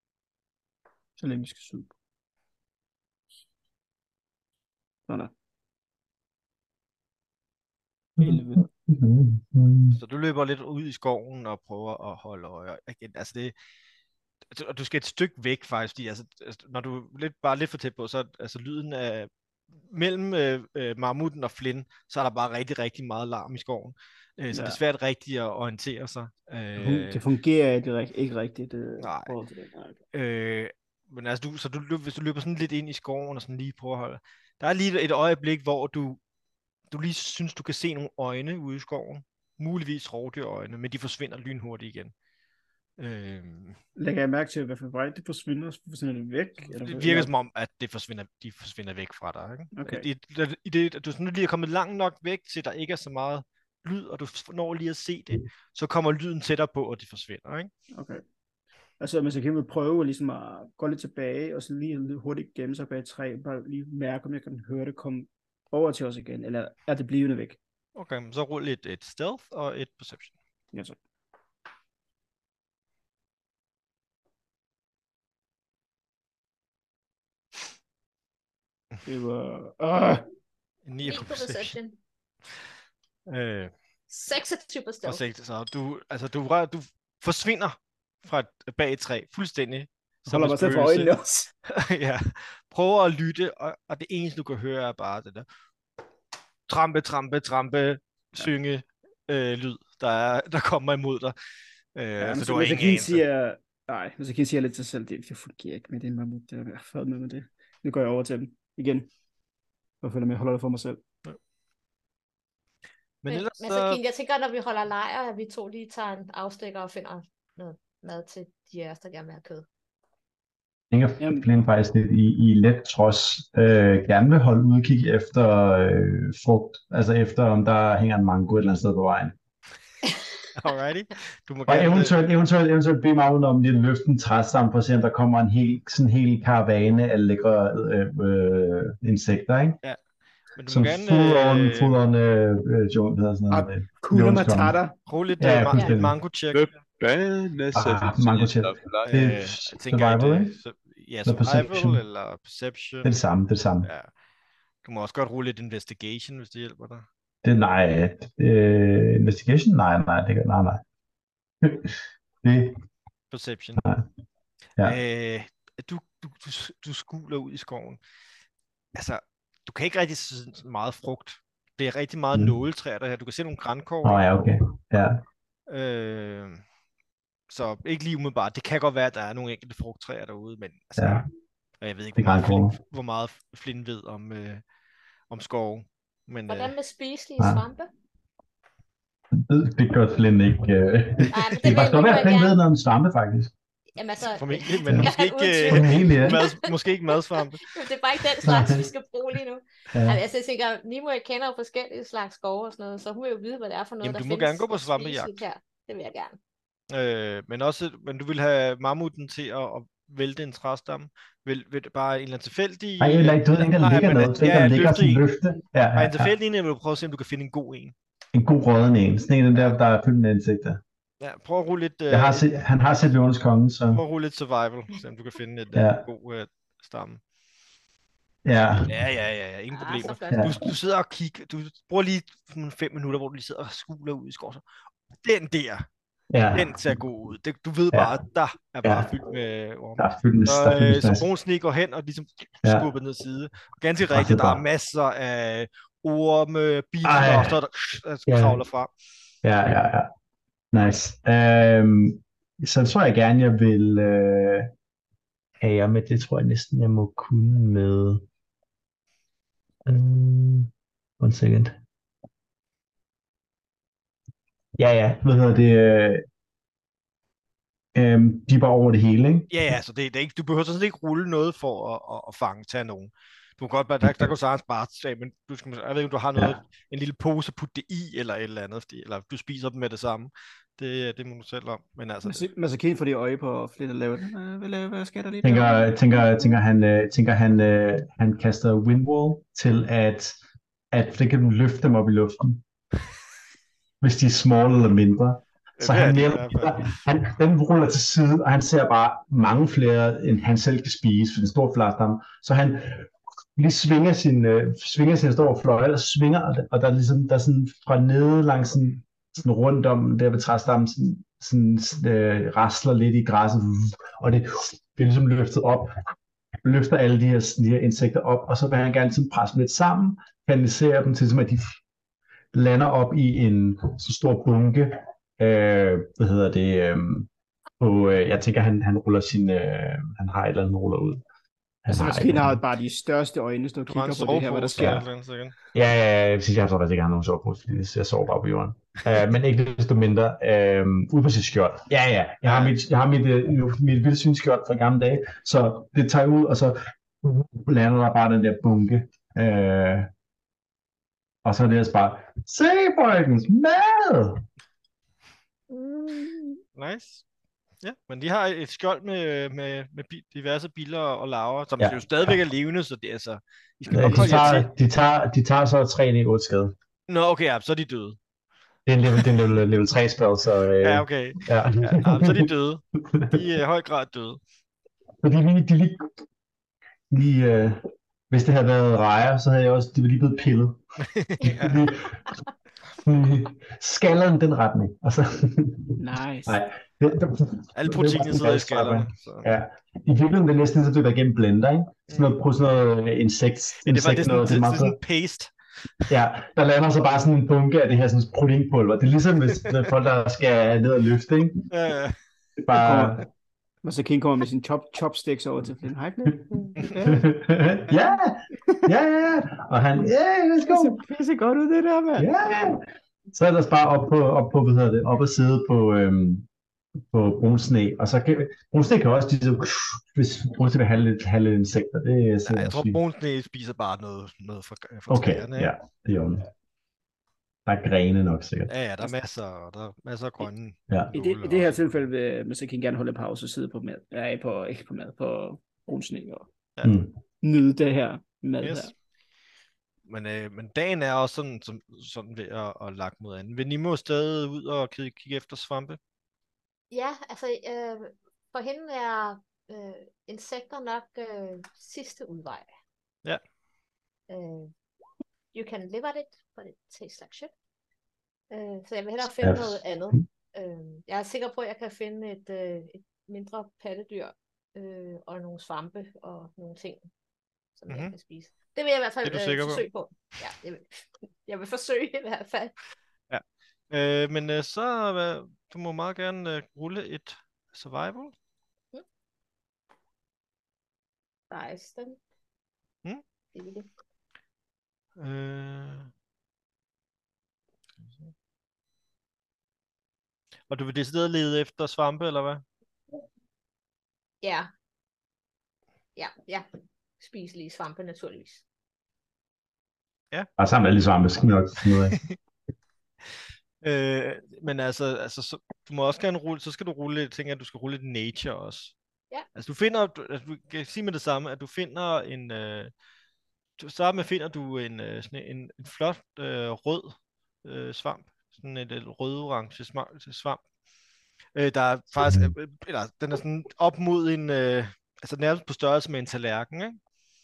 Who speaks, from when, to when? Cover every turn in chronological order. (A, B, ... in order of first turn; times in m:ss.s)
0:01.2-0:01.9 A
0:08.2-0:10.0 B
0:08.2-0:08.6 A
0:09.9-0:13.5 C
0:14.5-0:19.3 C
0:19.8-0:27.2 C
0:24.5-0:24.8 A
0:26.8-0:30.0 A
0:29.0-0:29.3 C
0:30.1-0:36.2 C
0:36.9-0:42.1 C
0:43.0-0:43.8 C
0:44.0-0:47.3 A
0:46.6-0:57.7 C
0:49.7-0:50.1 A
0:57.9-0:58.2 A
0:59.0-1:07.6 A
1:07.9-1:10.3 C
1:19.0-1:20.2 A
1:20.8-1:21.7 C
1:21.0-1:22.0 D
1:23.3-1:23.7 C
1:24.1-1:25.2 D
1:25.0-1:31.1 C
1:30.3-1:31.5 A
1:31.7-1:35.4 C
1:36.7-1:41.3 C
1:42.0-1:43.2 C
1:42.2-1:49.1 A
1:50.0-1:51.0 A
1:53.2-1:54.0 C
1:53.3-1:59.6 D
2:00.9-2:09.3 B
2:01.2-2:01.4 A
2:10.5-2:12.1 C
2:11.7-2:19.8 B
2:20.6-2:22.0 C
2:20.7-2:24.8 B
2:23.5-2:25.0 A
2:25.1-2:26.7 C
2:25.4-2:26.2 B
2:26.5-2:29.3 E
2:27.7-2:30.6 B
2:29.1-2:33.1 C
2:31.2-2:32.0 B
2:33.0-2:33.9 B
2:34.8-2:37.0 C
2:37.4-2:40.8 B
2:41.6-2:42.8 B
2:43.3-2:43.9 C
2:44.8-2:48.0 C
2:48.9-2:54.2 C
2:54.0-2:55.2 B
2:55.7-2:56.6 C
2:57.5-3:01.2 C
3:01.0-3:01.2 B
3:01.8-3:04.6 C
3:02.2-3:02.7 B
3:05.3-3:06.7 C
3:06.5-3:07.9 D
3:09.3-3:13.5 B
3:11.3-3:12.6 D
3:14.0-3:26.4 D
3:14.3-3:17.7 C
3:15.7-3:16.4 B
3:18.4-3:18.8 B
3:19.9-3:20.2 B
3:24.0-3:25.4 C
3:26.9-3:35.2 C
3:33.0-3:36.3 B
3:35.9-3:37.9 C
3:38.3-3:40.8 B
3:39.5-3:39.8 C
3:41.2-3:42.4 C
3:42.1-3:44.0 B
3:43.9-3:47.2 C
3:45.7-3:46.0 B
3:48.4-3:48.9 B
3:48.8-3:54.6 C
3:49.7-3:50.5 D
3:50.3-3:50.7 B
3:55.2-3:55.8 C
3:56.3-3:56.8 B
3:56.5-4:08.9 C
3:58.8-3:59.1 B
4:00.0-4:01.2 B
4:04.1-4:04.6 B
4:07.0-4:07.6 B
4:08.3-4:08.6 B
4:09.4-4:10.1 B
4:10.7-4:14.7 B
4:15.6-4:18.2 B
4:19.8-4:21.8 B
4:24.8-4:26.2 B
4:27.9-4:29.5 B
4:29.5-4:42.5 C
4:42.2-4:46.6 A
4:45.4-4:50.4 B
4:50.9-4:52.6 B
4:54.0-5:16.0 B
4:55.8-4:56.9 C
5:16.6-5:21.8 B
5:22.5-5:27.3 B
5:27.8-5:31.2 B
5:31.8-5:32.6 B
5:31.9-5:35.0 A
5:33.9-5:35.5 C
5:34.8-5:35.0 B
5:35.7-5:50.1 B
5:42.4-5:42.7 C
5:51.4-5:54.4 B
5:55.7-5:56.5 D
5:56.8-5:57.2 C
5:57.8-6:04.7 C
6:01.8-6:02.4 B
6:03.9-6:06.7 B
6:03.9-6:04.5 A
6:07.1-6:08.2 C
6:08.8-6:12.5 B
6:10.8-6:14.4 C
6:13.1-6:13.4 B
6:15.2-6:16.1 B
6:17.1-6:20.8 B
6:21.1-6:21.8 C
6:21.4-6:22.3 B
6:23.0-6:35.0 B
6:26.0-6:26.6 A
6:27.7-6:29.5 C
6:33.8-6:35.5 C
6:36.1-6:41.7 B
6:41.7-6:42.2 C
6:42.6-6:43.2 B
6:42.7-6:43.2 A
6:43.8-6:47.3 A
6:46.8-6:47.1 C
6:47.0-6:51.0 B
6:50.6-6:52.3 A
6:52.2-6:56.5 B
6:57.1-7:03.0 B
7:02.4-7:05.7 C
7:05.1-7:06.5 B
7:07.6-7:08.7 B
7:08.7-7:11.8 C
7:11.1-7:16.5 A
7:16.8-7:17.1 B
7:17.4-7:18.9 A
7:18.6-7:18.9 C
7:20.0-7:26.0 C
7:26.9-7:32.7 D
7:34.3-7:34.7 D
7:35.5-7:37.5 D
7:38.5-7:47.0 D
7:39.4-7:40.2 B
7:47.8-7:52.7 D
7:47.9-7:48.1 C
7:49.2-7:49.8 C
7:53.3-7:58.3 C
8:01.5-8:02.2 D
8:03.5-8:03.9 D
8:05.2-8:06.1 C
8:10.7-8:12.6 C
8:14.4-8:14.7 D
8:16.2-8:16.6 D
8:17.2-8:18.6 D
8:20.6-8:22.2 B
8:23.8-8:28.9 C
8:29.5-8:32.9 C
8:33.8-8:40.6 C
8:41.5-8:47.0 C